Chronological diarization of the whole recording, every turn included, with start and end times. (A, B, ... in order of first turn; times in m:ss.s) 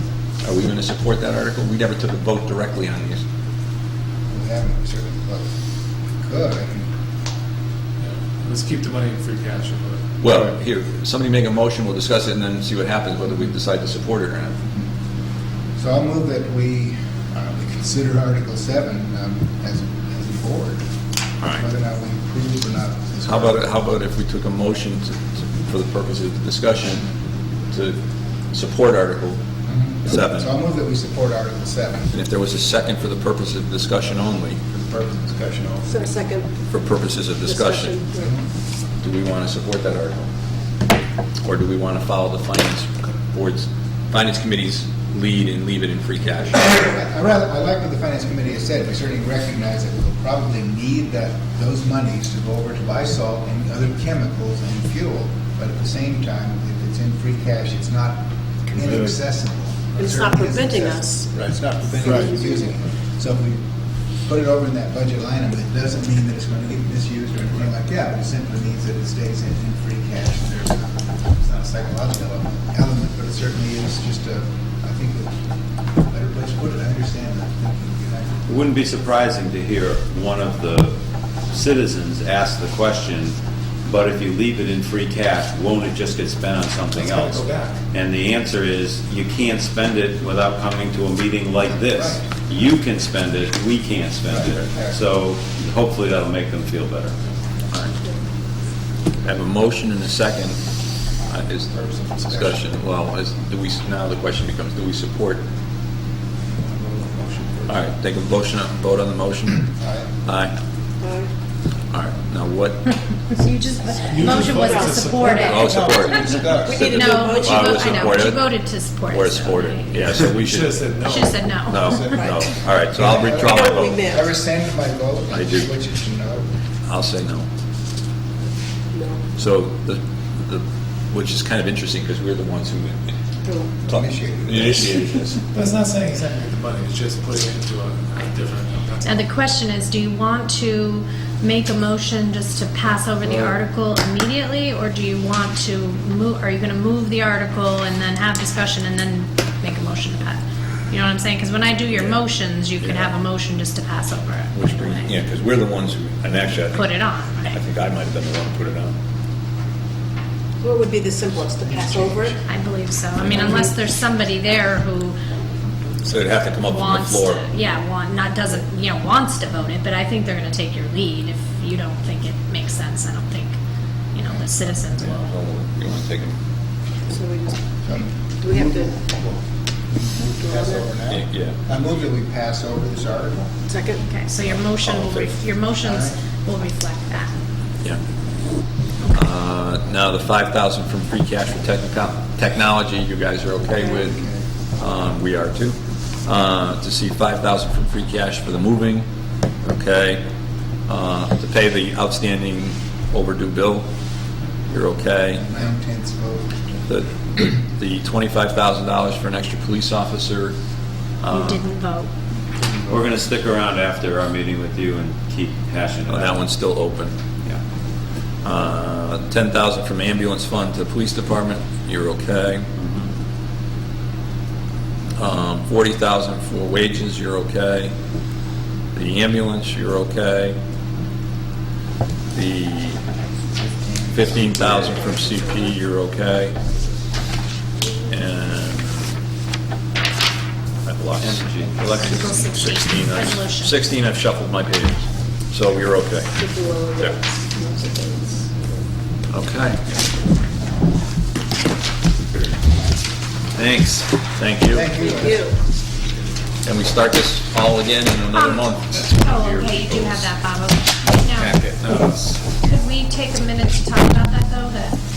0:00.4-0:03.2 A
0:04.3-0:05.5 B
0:06.2-0:06.9 B
0:08.0-0:10.1 C
0:10.2-0:14.6 A
0:15.8-0:20.8 B
0:21.5-0:23.7 B
0:23.2-0:27.1 A
0:27.7-0:28.0 A
0:28.5-0:29.4 A
0:29.7-0:32.1 B
0:30.0-0:30.5 A
0:32.1-0:34.6 A
0:34.7-0:36.1 B
0:35.8-0:36.6 D
0:36.7-0:38.0 A
0:37.4-0:38.3 D
0:38.2-0:38.4 B
0:39.0-0:40.3 A
0:41.4-0:46.8 A
0:46.6-1:03.6 B
1:00.0-1:01.4 D
1:02.0-1:02.7 D
1:04.2-1:15.4 B
1:16.0-1:18.5 B
1:18.5-1:37.1 E
1:27.0-1:27.8 C
1:31.8-1:32.3 B
1:34.2-1:35.0 B
1:39.2-1:40.6 A
1:41.2-1:45.4 A
1:41.7-1:42.6 B
1:46.6-1:47.7 B
1:47.7-1:49.7 A
1:49.7-1:50.1 B
1:50.2-1:50.6 A
1:51.0-1:51.3 D
1:51.9-1:52.8 A
1:53.3-1:55.6 F
1:54.0-1:55.9 C
1:54.2-1:54.6 B
1:54.5-1:55.6 D
1:55.4-1:57.0 B
1:55.4-2:00.9 A
1:56.6-1:58.2 D
1:56.9-2:00.0 F
2:00.1-2:01.5 C
2:01.0-2:02.3 F
2:01.7-2:04.1 A
2:02.9-2:06.5 B
2:03.4-2:04.3 D
2:05.3-2:05.7 A
2:06.8-2:07.5 A
2:08.9-2:09.2 D
2:09.4-2:13.1 A
2:13.4-2:13.7 D
2:13.8-2:15.0 B
2:13.8-2:15.4 A
2:15.5-2:19.3 C
2:19.0-2:35.1 F
2:31.9-2:32.2 A
2:32.8-2:33.2 A
2:34.5-2:38.9 A
2:36.7-2:37.6 F
2:40.6-2:42.4 D
2:42.5-2:45.2 F
2:43.2-2:43.6 A
2:46.0-2:47.5 A
2:46.6-2:53.5 F
2:54.1-2:55.3 F
2:54.9-2:56.4 A
2:57.1-2:57.6 D
2:57.8-3:03.5 B
2:58.4-2:58.9 D
3:00.4-3:00.9 D
3:01.1-3:01.6 A
3:03.6-3:04.0 D
3:04.0-3:07.3 F
3:04.8-3:05.3 A
3:05.8-3:06.2 B
3:09.1-3:19.1 A
3:14.1-3:14.4 B
3:19.6-3:20.2 A
3:20.9-3:23.9 A
3:24.7-3:25.4 A
3:25.3-3:26.9 B
3:26.9-3:30.6 A
3:31.2-3:31.6 E
3:31.2-3:32.1 F
3:32.9-3:36.4 E
3:36.1-3:37.1 A
3:38.4-3:42.7 A
3:42.8-3:43.1 E
3:45.2-3:47.9 A
3:48.9-3:50.6 A
3:52.3-3:53.0 A
3:53.5-3:55.1 B
3:54.1-3:56.6 A
3:58.1-3:59.0 A
4:00.8-4:06.3 A
4:01.2-4:02.1 E
4:02.0-4:03.8 F
4:06.3-4:08.8 D
4:09.3-4:09.9 A
4:13.5-4:14.1 E
4:14.4-4:14.9 A
4:14.7-4:15.5 B
4:15.0-4:15.5 D
4:16.6-4:20.3 A
4:18.3-4:21.6 F
4:21.4-4:22.5 E
4:22.5-4:25.0 F